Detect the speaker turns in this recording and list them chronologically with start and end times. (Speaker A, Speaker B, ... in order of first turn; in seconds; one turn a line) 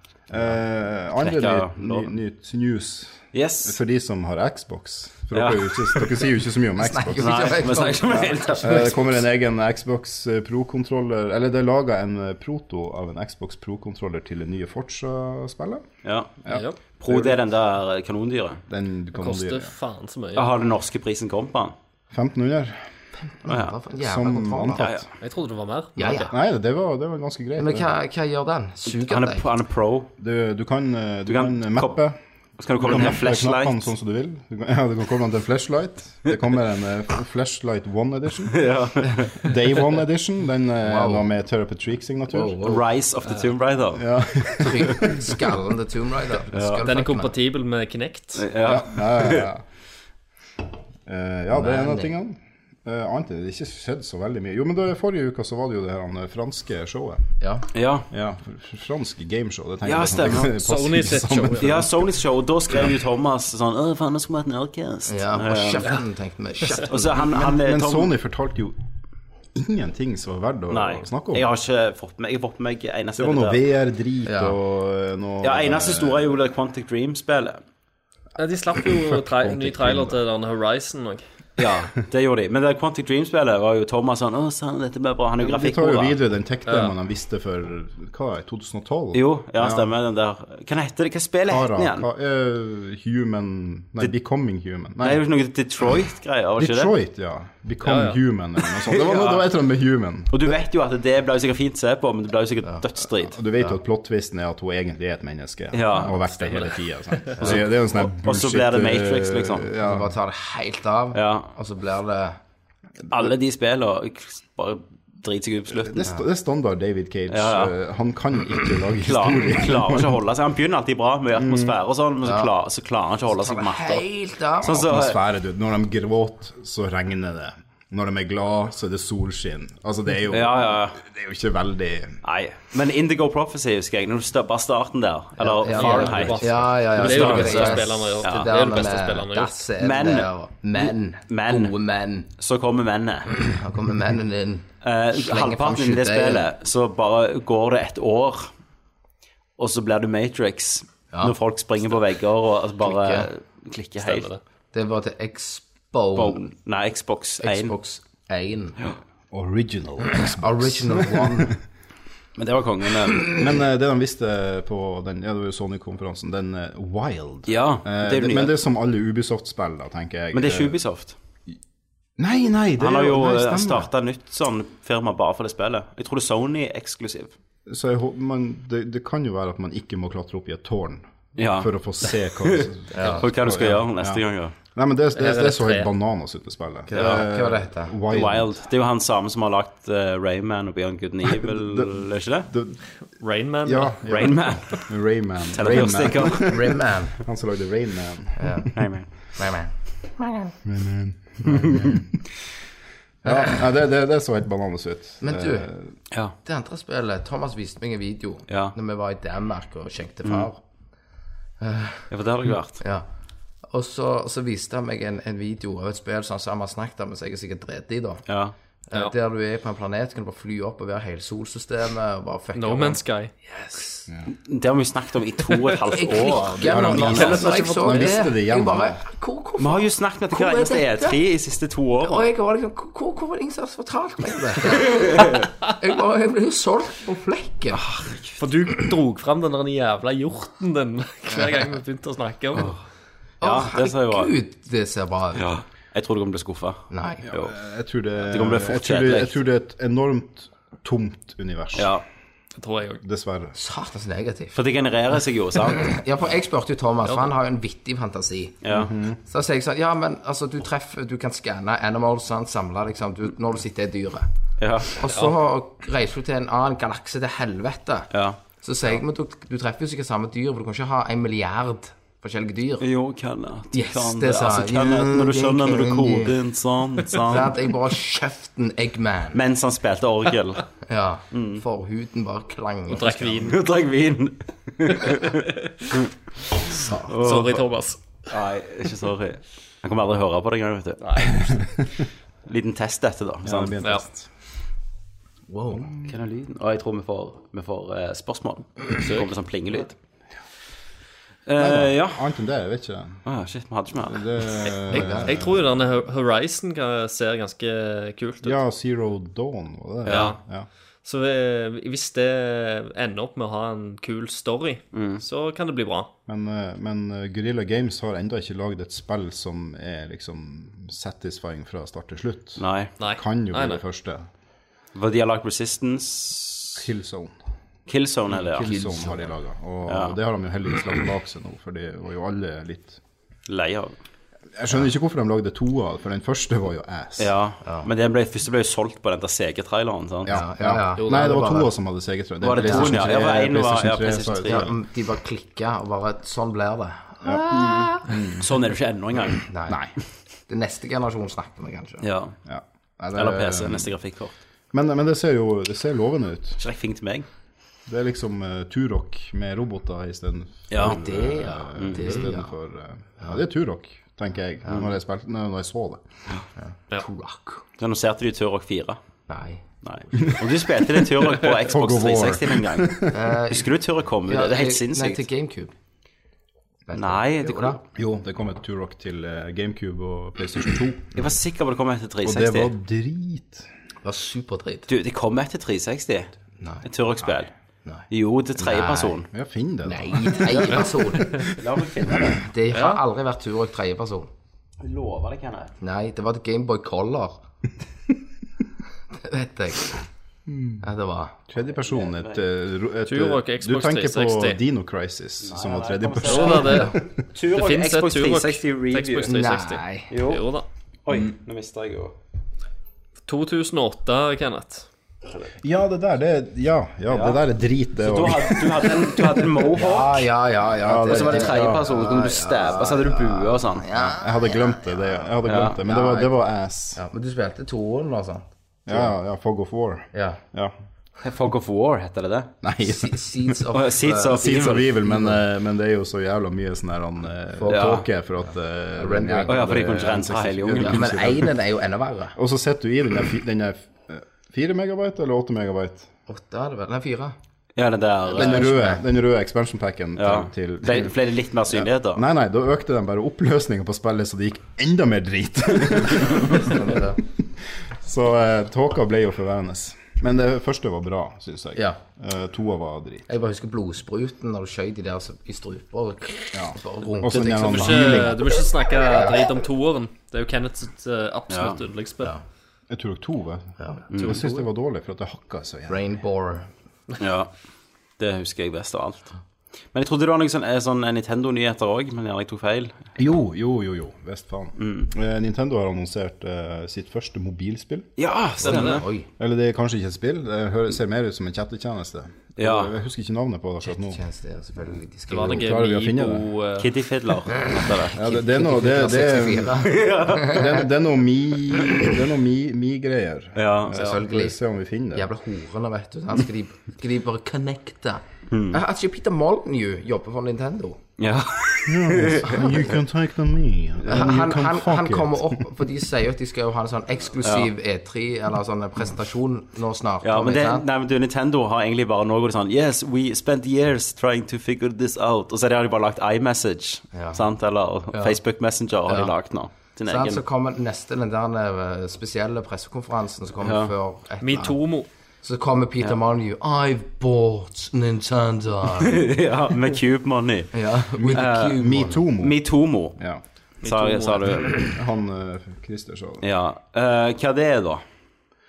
Speaker A: 0.3-7.5
Speaker B: 1.2-2.1
Speaker B: 3.3-3.8
Speaker B: 5.3-6.3
Speaker C: 6.8-8.9
Speaker B: 7.2-9.0
Speaker A: 8.1-15.9
Speaker B: 16.0-18.6
Speaker A: 16.4-17.4
Speaker D: 16.5-16.8
Speaker A: 18.7-19.7
Speaker D: 19.1-20.5
Speaker B: 20.3-21.7
Speaker A: 22.1-22.9
Speaker C: 23.3-24.9
Speaker B: 23.5-23.7
Speaker A: 24.0-25.1
Speaker B: 24.8-25.0
Speaker D: 25.2-26.0
Speaker C: 25.9-26.3
Speaker A: 26.0-27.9
Speaker C: 27.6-29.4
Speaker B: 28.9-30.1
Speaker A: 30.2-32.2
Speaker B: 31.3-32.0
Speaker B: 32.6-33.9
Speaker A: 32.8-38.7
Speaker B: 38.5-39.5
Speaker A: 39.3-42.6
Speaker C: 40.8-41.2
Speaker C: 42.3-42.8
Speaker B: 42.6-44.1
Speaker A: 43.9-45.3
Speaker C: 44.6-47.3
Speaker B: 46.5-46.8
Speaker D: 46.8-48.5
Speaker B: 48.4-49.5
Speaker A: 48.6-49.6
Speaker A: 51.0-57.3
Speaker C: 51.5-52.1
Speaker C: 57.4-57.6
Speaker B: 57.7-58.1
Speaker A: 58.1-61.9
Speaker B: 59.8-60.6
Speaker D: 60.5-61.8
Speaker B: 61.6-66.0
Speaker C: 65.1-67.5
Speaker B: 66.9-68.1
Speaker A: 67.3-68.8
Speaker A: 69.5-71.5
Speaker B: 70.7-73.6
Speaker A: 73.2-76.3
Speaker C: 74.2-74.5
Speaker B: 75.4-77.6
Speaker D: 78.4-81.2
Speaker A: 78.8-80.2
Speaker B: 81.6-86.1
Speaker A: 85.4-89.9
Speaker D: 86.7-86.9
Speaker B: 89.1-92.0
Speaker A: 91.5-95.2
Speaker B: 95.0-96.9
Speaker A: 96.6-100.5
Speaker D: 97.8-98.2
Speaker B: 98.8-99.5
Speaker B: 100.3-103.4
Speaker A: 103.2-110.1
Speaker B: 105.7-106.2
Speaker D: 106.4-107.3
Speaker B: 107.4-109.7
Speaker C: 109.8-112.4
Speaker B: 111.1-111.5
Speaker B: 113.1-116.1
Speaker A: 115.7-120.2
Speaker B: 117.3-117.7
Speaker B: 119.0-124.0
Speaker A: 121.4-121.7
Speaker C: 122.2-122.5
Speaker C: 123.3-124.8
Speaker B: 124.6-125.2
Speaker A: 124.7-132.2
Speaker B: 130.3-131.0
Speaker B: 132.2-138.5
Speaker C: 135.4-142.3
Speaker D: 135.7-139.6
Speaker A: 136.1-136.5
Speaker B: 139.8-141.8
Speaker B: 142.4-143.5
Speaker C: 143.4-146.5
Speaker B: 144.8-148.5
Speaker B: 149.6-154.3
Speaker C: 152.8-153.3
Speaker D: 154.0-154.4
Speaker C: 154.7-156.4
Speaker B: 156.1-157.7
Speaker C: 157.4-158.8
Speaker A: 159.3-161.5
Speaker C: 160.1-161.6
Speaker B: 162.4-163.4
Speaker A: 163.3-170.8
Speaker B: 167.5-168.6
Speaker B: 170.3-171.2
Speaker A: 172.2-173.9
Speaker B: 172.8-177.3
Speaker A: 177.7-188.5
Speaker B: 181.4-184.5
Speaker C: 182.9-183.2
Speaker D: 185.1-185.9
Speaker C: 186.9-187.9
Speaker B: 186.9-187.2
Speaker B: 188.1-192.5
Speaker A: 191.2-192.8
Speaker D: 193.2-194.0
Speaker A: 193.6-198.7
Speaker B: 194.1-194.9
Speaker B: 195.5-196.6
Speaker C: 196.3-197.2
Speaker C: 198.4-198.7
Speaker B: 198.7-199.1
Speaker C: 199.2-200.6
Speaker A: 200.6-202.1
Speaker C: 201.4-201.9
Speaker A: 203.2-205.9
Speaker C: 203.2-203.6
Speaker C: 205.2-205.7
Speaker C: 206.4-210.6
Speaker B: 208.5-208.7
Speaker C: 211.6-212.1
Speaker B: 212.1-212.8
Speaker C: 212.8-213.1
Speaker C: 213.7-218.2
Speaker B: 218.3-218.5
Speaker C: 218.9-224.1
Speaker D: 222.6-223.3
Speaker B: 224.4-227.5
Speaker C: 225.9-231.2
Speaker A: 226.4-229.0
Speaker D: 227.1-228.1
Speaker B: 229.6-232.3
Speaker C: 232.0-237.8
Speaker B: 235.0-235.4
Speaker B: 237.7-238.4
Speaker D: 238.4-242.8
Speaker B: 242.6-242.8
Speaker B: 243.4-244.3
Speaker C: 243.4-245.5
Speaker B: 245.4-247.5
Speaker C: 246.9-247.2
Speaker A: 247.3-252.0
Speaker B: 248.2-249.4
Speaker B: 251.8-252.1
Speaker D: 252.6-253.0
Speaker A: 253.0-253.6
Speaker C: 253.6-254.6
Speaker B: 254.6-256.0
Speaker C: 255.7-258.6
Speaker B: 258.6-258.9
Speaker A: 258.7-259.2
Speaker C: 259.3-264.3
Speaker B: 264.6-265.0
Speaker C: 264.9-272.8
Speaker B: 268.1-268.4
Speaker B: 272.8-277.6
Speaker C: 273.7-276.3
Speaker C: 277.2-279.4
Speaker B: 279.3-280.7
Speaker C: 280.8-283.5
Speaker B: 281.3-281.6
Speaker D: 282.9-283.6
Speaker B: 283.3-286.1
Speaker C: 286.7-287.1
Speaker B: 287.1-287.7
Speaker D: 287.2-288.0
Speaker B: 288.3-291.3
Speaker D: 291.0-291.6
Speaker B: 292.4-293.8
Speaker A: 293.4-294.3
Speaker C: 295.5-295.9
Speaker A: 295.7-296.0
Speaker B: 296.1-299.9
Speaker B: 301.5-302.2
Speaker A: 301.6-303.2
Speaker B: 303.2-304.7
Speaker A: 304.1-305.6
Speaker D: 304.9-308.6
Speaker C: 304.9-305.3
Speaker A: 308.4-310.7
Speaker B: 310.1-310.3
Speaker D: 310.1-310.4
Speaker D: 311.0-316.1
Speaker B: 314.9-315.2
Speaker A: 316.3-324.3
Speaker B: 322.6-322.9
Speaker D: 323.0-323.8
Speaker B: 324.9-326.8
Speaker A: 326.8-327.4
Speaker B: 327.9-328.7
Speaker A: 328.3-333.0
Speaker C: 328.6-329.3
Speaker B: 329.9-330.2
Speaker B: 333.5-333.9
Speaker A: 334.6-337.3
Speaker B: 337.2-340.4
Speaker A: 340.2-344.8
Speaker C: 340.3-341.7
Speaker D: 341.0-341.3
Speaker B: 342.4-344.7
Speaker C: 342.6-343.2
Speaker C: 344.5-348.1
Speaker A: 347.2-348.4
Speaker B: 347.5-349.4
Speaker C: 349.4-349.8
Speaker A: 349.7-349.9
Speaker C: 350.5-352.0
Speaker B: 352.0-352.4
Speaker A: 352.4-353.9
Speaker B: 353.1-354.3
Speaker A: 354.7-356.6
Speaker B: 356.6-357.3
Speaker A: 357.9-366.0
Speaker B: 360.7-361.0
Speaker C: 360.8-362.5
Speaker B: 361.8-362.2
Speaker C: 366.6-367.6
Speaker B: 367.8-369.0
Speaker C: 369.3-369.6
Speaker B: 369.8-375.2
Speaker A: 370.2-373.1
Speaker C: 373.1-373.7
Speaker C: 374.3-375.7
Speaker C: 376.9-377.8
Speaker B: 376.9-377.8
Speaker A: 377.9-381.1
Speaker B: 381.1-382.7
Speaker A: 382.2-383.7
Speaker C: 384.0-384.9
Speaker B: 384.9-386.3
Speaker C: 386.6-386.8
Speaker B: 386.8-387.5
Speaker B: 388.1-389.3
Speaker C: 388.6-389.2
Speaker A: 389.3-392.3
Speaker C: 389.8-391.4
Speaker B: 391.5-392.4
Speaker C: 392.2-394.3
Speaker D: 392.7-393.0
Speaker B: 394.8-395.7
Speaker C: 395.8-397.4
Speaker C: 399.1-400.0
Speaker A: 400.5-400.8
Speaker C: 400.8-401.4
Speaker A: 401.5-407.0
Speaker B: 401.8-402.4
Speaker D: 403.1-404.6
Speaker B: 405.4-409.5
Speaker D: 406.2-410.6
Speaker C: 409.3-410.1
Speaker B: 410.1-410.4
Speaker B: 411.1-412.1
Speaker D: 413.3-414.9
Speaker A: 415.6-419.2
Speaker B: 417.1-417.4
Speaker B: 418.0-420.3
Speaker C: 419.7-426.3
Speaker A: 420.8-421.8
Speaker B: 421.1-423.9
Speaker A: 423.9-427.0
Speaker B: 425.4-425.8
Speaker C: 426.9-429.1
Speaker A: 428.9-430.7
Speaker C: 430.1-430.4
Speaker B: 431.2-432.5
Speaker A: 432.6-433.5
Speaker C: 432.8-434.8
Speaker B: 433.7-435.0
Speaker A: 434.3-441.5
Speaker C: 437.6-438.1
Speaker B: 437.7-438.0
Speaker C: 438.9-439.9
Speaker B: 439.5-441.1
Speaker C: 440.8-442.4
Speaker A: 442.4-446.1
Speaker C: 446.3-447.3
Speaker B: 447.8-448.8
Speaker C: 448.3-449.0
Speaker A: 448.3-451.1
Speaker B: 450.2-452.2
Speaker A: 451.7-463.3
Speaker C: 456.4-457.2
Speaker C: 463.3-468.6
Speaker A: 466.5-468.4
Speaker D: 467.7-472.3
Speaker B: 471.5-471.8
Speaker A: 472.9-476.0
Speaker C: 473.8-474.6
Speaker B: 474.1-474.4
Speaker C: 475.9-476.7
Speaker B: 477.2-477.5
Speaker B: 478.2-479.3
Speaker B: 479.9-483.0
Speaker A: 483.2-488.1
Speaker B: 484.8-485.1
Speaker B: 488.2-489.0
Speaker C: 488.6-489.3
Speaker D: 488.6-489.0
Speaker A: 489.4-494.2
Speaker B: 492.6-492.9
Speaker C: 493.8-495.6
Speaker D: 495.3-496.9
Speaker A: 495.4-496.5
Speaker B: 496.8-498.3
Speaker C: 497.5-500.7
Speaker A: 498.1-505.3
Speaker B: 499.8-500.8
Speaker B: 503.6-504.0
Speaker C: 503.9-504.6
Speaker C: 505.1-511.0
Speaker B: 508.5-508.8
Speaker B: 511.2-512.9
Speaker A: 511.9-515.6
Speaker B: 514.0-514.3
Speaker C: 514.1-520.8
Speaker B: 517.4-517.7
Speaker B: 520.2-530.4
Speaker C: 527.1-527.4
Speaker C: 528.1-528.4
Speaker C: 529.1-529.3
Speaker C: 530.0-534.8
Speaker B: 533.6-533.9
Speaker D: 534.4-535.1
Speaker C: 535.4-539.2
Speaker B: 539.0-540.7
Speaker C: 540.7-542.2
Speaker A: 541.2-542.6
Speaker B: 541.3-541.8
Speaker B: 542.4-543.2
Speaker A: 543.1-543.4
Speaker D: 543.8-544.8
Speaker B: 543.8-544.8
Speaker A: 544.7-546.4
Speaker B: 546.4-548.0